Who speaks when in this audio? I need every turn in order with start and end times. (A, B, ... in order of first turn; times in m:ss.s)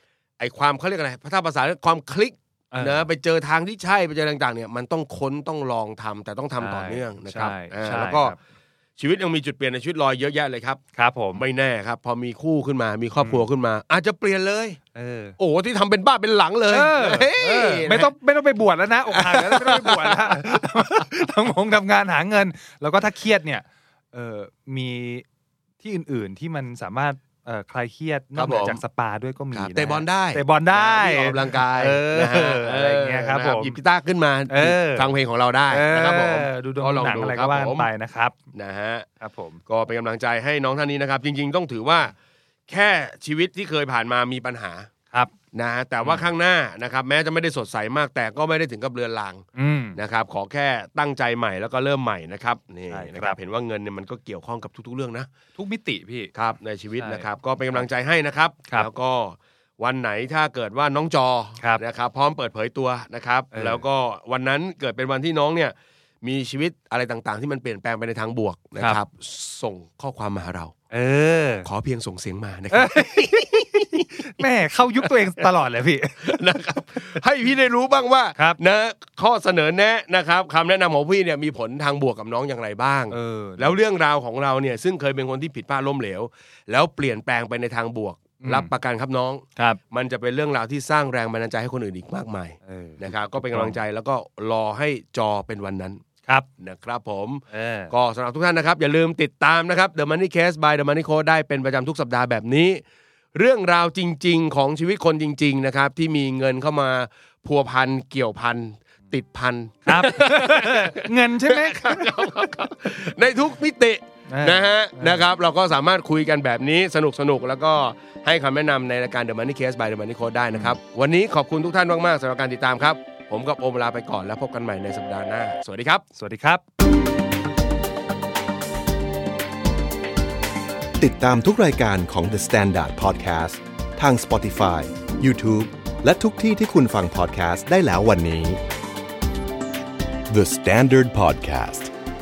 0:00.4-0:08.4 A
0:02.7-0:03.1 B
0:06.6-0:08.4 B
0:09.0-0:10.8 A
0:11.0-0:11.4 B
0:11.4-0:14.8 A
0:15.0-0:15.4 B
0:15.4-0:18.1 A
0:16.7-0:25.2 B
0:19.1-0:20.6 A
0:25.8-0:33.8 B
0:28.4-0:28.8 A
0:29.5-0:37.9 A
0:34.5-0:35.1 B
0:35.7-0:38.4 B
0:38.5-0:39.1 A
0:39.2-0:39.6 B
0:39.7-0:42.1 A
0:42.7-0:44.9 A
0:45.5-0:49.4 A
0:46.0-0:46.3 B
0:49.6-0:50.0 B
0:50.0-0:55.3 A
0:52.9-0:53.4 B
0:55.6-0:56.3 B
0:56.4-1:10.7 A
0:57.0-0:57.8 B
1:03.5-1:03.8 B
1:10.9-1:11.7 B
1:11.6-1:14.3 A
1:12.7-1:13.5 B
1:14.1-1:16.2 B
1:15.0-1:15.4 A
1:16.2-1:36.0 A
1:23.1-1:23.8 B
1:28.4-1:28.7 B
1:32.7-1:33.8 B
1:36.6-1:42.8 A
1:37.5-1:37.9 B
1:43.3-2:06.0 A
1:49.8-1:52.1 B
1:54.3-1:55.2 B
2:06.2-2:06.6 B
2:11.0-2:18.6 C
2:20.3-2:21.9 C